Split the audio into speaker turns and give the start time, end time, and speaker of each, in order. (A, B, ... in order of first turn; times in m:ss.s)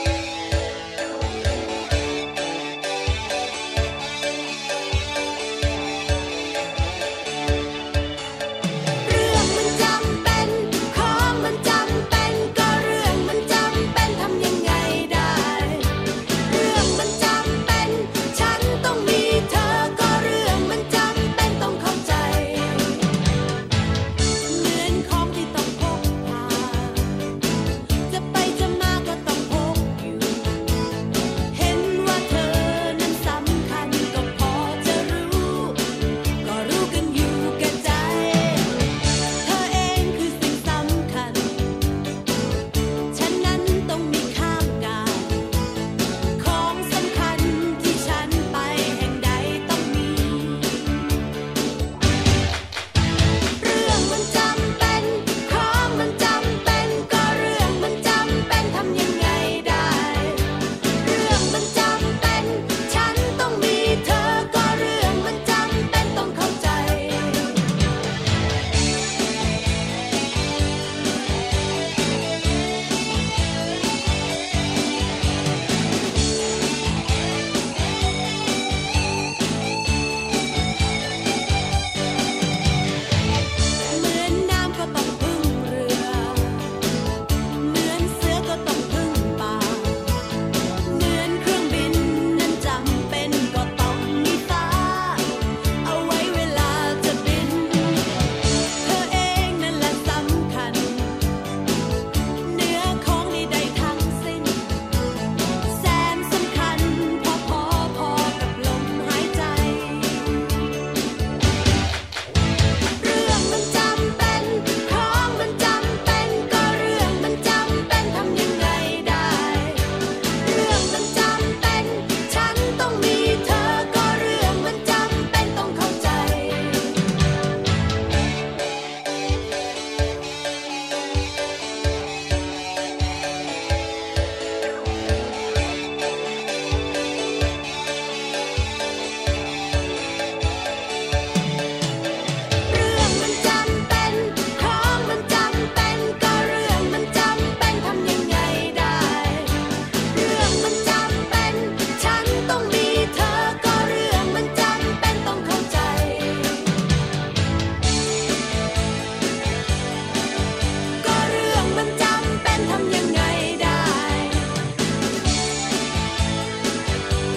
0:09.0-0:23.1 A
0:24.4-0:27.3 A
0:28.0-0:30.6 A
0:31.5-0:35.8 A
0:36.4-0:41.8 A
0:43.1-0:45.5 A
0:46.4-0:51.0 A
0:53.6-1:07.6 A
1:23.8-1:26.8 A
1:27.6-1:38.2 A
1:38.7-1:41.3 A
1:42.4-1:44.8 A
1:45.5-1:50.4 A
1:53.0-1:59.9 A
2:00.4-2:06.9 A
2:22.7-2:29.6 A
2:30.1-2:36.7 A
2:41.0-2:44.5 A